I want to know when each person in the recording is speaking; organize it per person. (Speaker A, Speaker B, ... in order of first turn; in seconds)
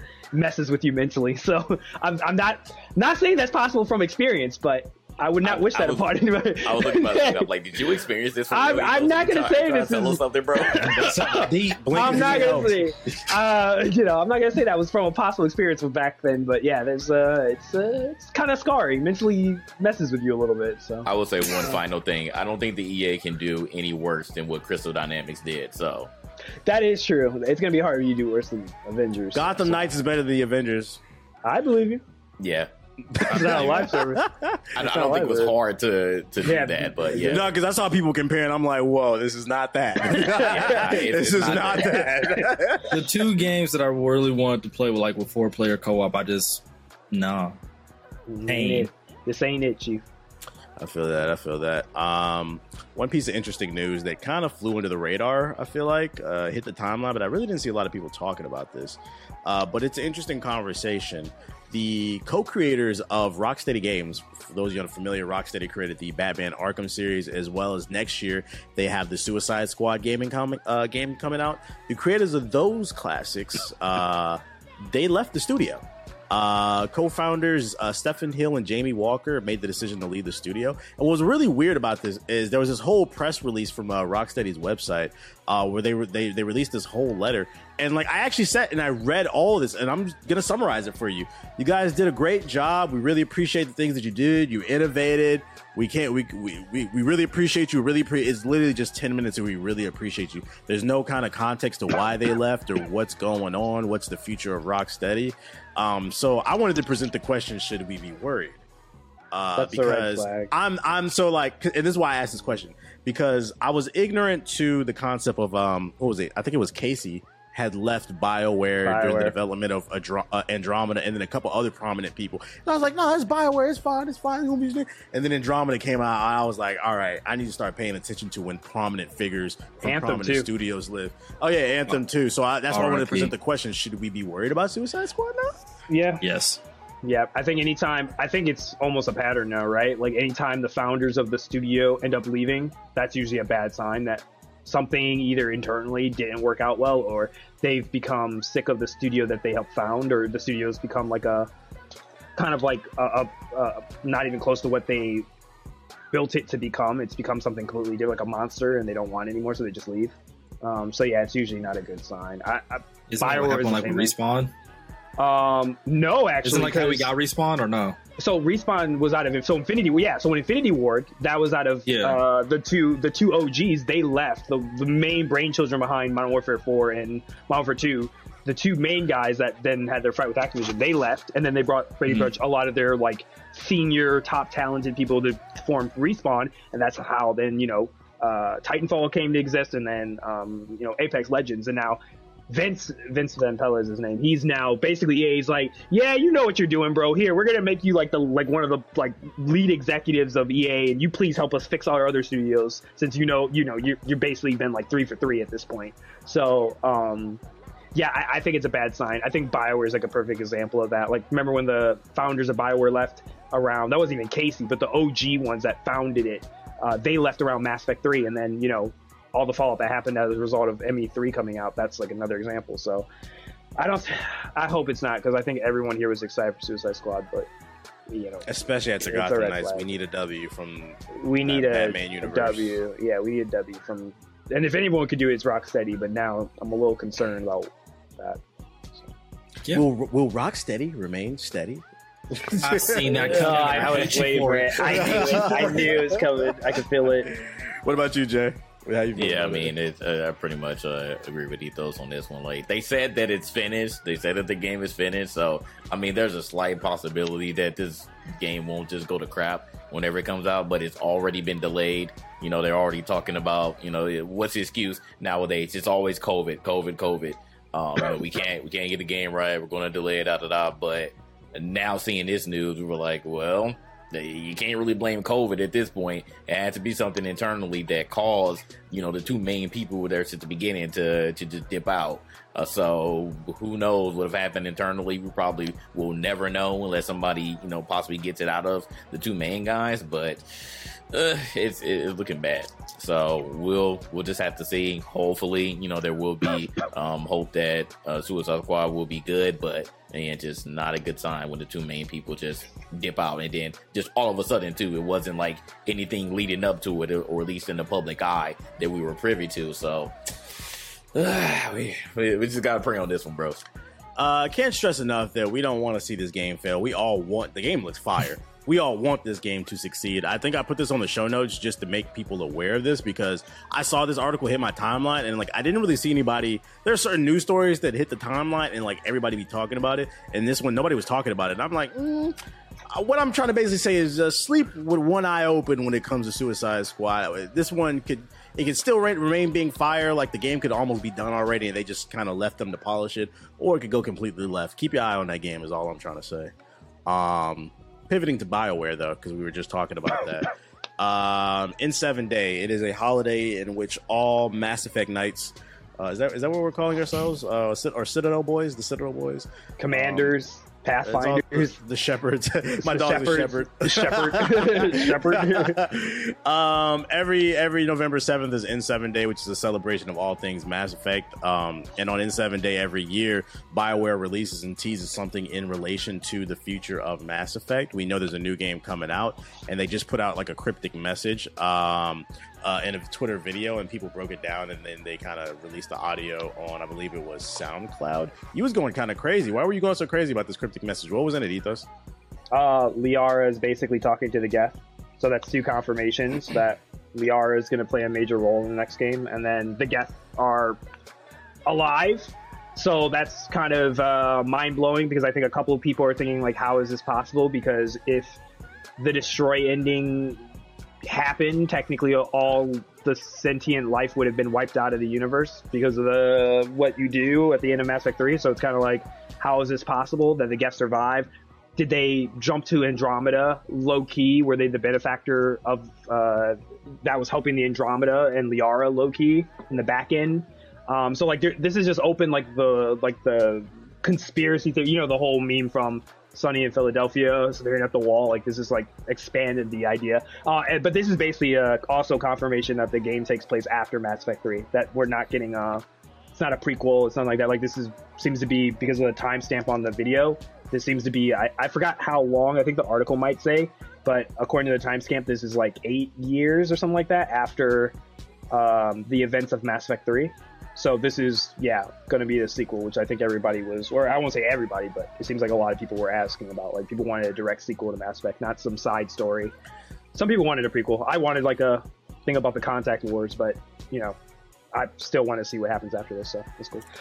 Speaker A: 0.3-7.5, 8.5-21.7, 26.7-30.0, 31.4-32.0, 33.2-34.3, 34.8-35.5, 36.4-37.4, 40.1-41.0, 41.7-42.6, 48.3-50.0, 109.6-110.5, 118.9-119.3, 129.8-130.5, 135.9-136.2, 137.0-151.5, 152.4-155.3, 156.1-164.1, 165.2-167.1, 168.2-207.4, 207.9-223.1, 223.8-227.5, 228.1-229.9, 231.1-238.4, 243.2-247.3, 359.8-361.8, 362.8-365.8, 392.5-400.8, 401.7-408.4, 409.0-410.4, 411.1-445.8, 446.4-457.9, 458.5-469.5, 470.1-474.2, 474.7-476.9
Speaker B: 5.4-11.2, 21.1-26.1, 32.4-33.9, 34.7-37.5, 40.3-42.1, 243.7-244.1, 249.2-290.4, 291.1-310.1, 311.1-313.6
Speaker C: 10.8-12.8, 42.9-47.6, 48.5-48.9, 132.7-133.3, 136.2-136.6, 163.1-164.5, 166.4-168.0, 171.9-172.2, 182.1-182.3, 242.6-246.0
Speaker D: 11.9-12.8, 29.3-31.0, 33.1-34.6, 37.2-42.9, 50.8-108.6, 109.3-135.6, 228.5-232.8, 239.7-244.0, 244.8-246.5, 247.3-249.7, 314.2-332.4, 332.9-346.5, 347.1-360.4, 361.0-391.9